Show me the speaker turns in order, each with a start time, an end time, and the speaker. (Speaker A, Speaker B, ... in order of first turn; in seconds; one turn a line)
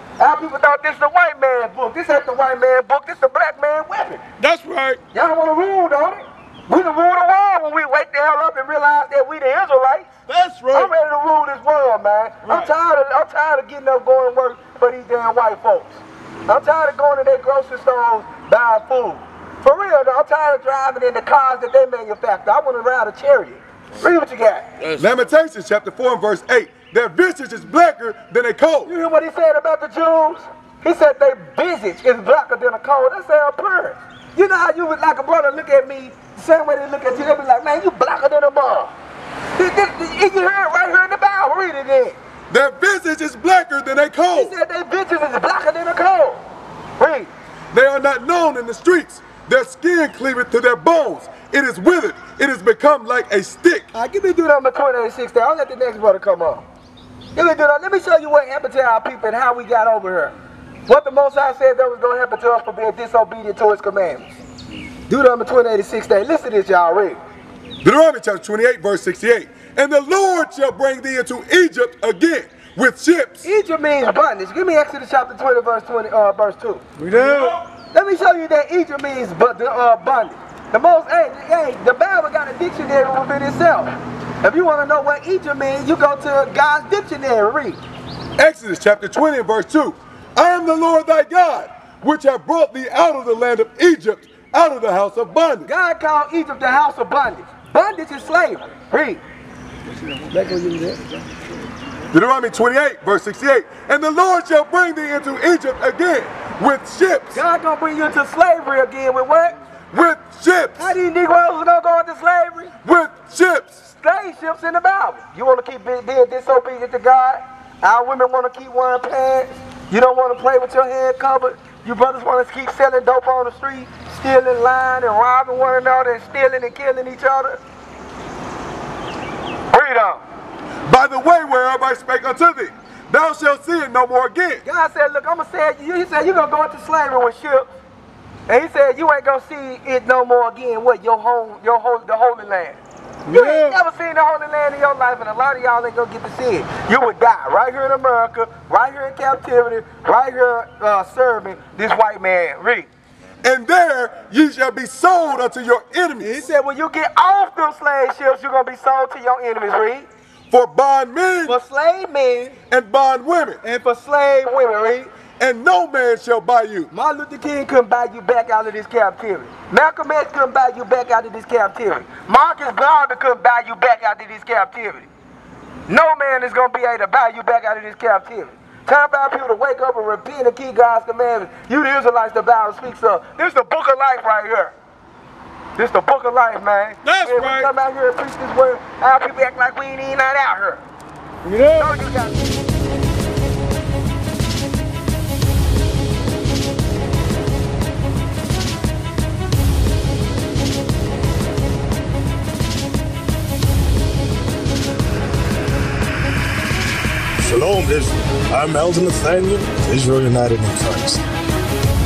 Speaker A: 0.2-4.2
Speaker B: 4.4-5.0
Speaker A: 5.1-10.1
Speaker B: 10.3-10.9
Speaker A: 10.7-24.7
Speaker B: 24.8-25.1
Speaker C: 25.0-28.9
Speaker A: 28.9-38.9
Speaker A: 39.6-42.2
Speaker C: 42.5-44.5
Speaker A: 44.3-46.4
Speaker A: 47.0-47.3
Speaker C: 47.7-53.9
Speaker A: 53.9-56.6
Speaker A: 57.4-60.3
Speaker A: 60.9-64.3
Speaker A: 65.1-67.2
Speaker C: 67.8-73.5
Speaker A: 73.4-87.8
Speaker B: 77.0-77.6
Speaker C: 88.4-95.7
Speaker A: 95.7-99.2
Speaker A: 100.3-101.1
Speaker C: 102.1-107.4
Speaker A: 107.3-109.6
Speaker C: 109.9-111.0
Speaker A: 110.8-112.7
Speaker C: 112.8-113.8
Speaker A: 113.9-127.6
Speaker A: 129.7-130.2
Speaker C: 130.9-134.6
Speaker A: 134.7-137.7
Speaker A: 138.5-152.9
Speaker B: 143.3-143.8
Speaker C: 153.4-156.3
Speaker A: 156.2-160.1
Speaker C: 160.5-161.6
Speaker A: 161.5-162.6
Speaker C: 162.7-163.6
Speaker A: 163.6-165.1
Speaker C: 165.4-166.9
Speaker A: 166.9-175.1
Speaker A: 175.9-184.7
Speaker A: 185.8-190.8
Speaker B: 187.1-187.7
Speaker B: 191.4-191.9
Speaker A: 191.8-192.6
Speaker D: 207.4-211.2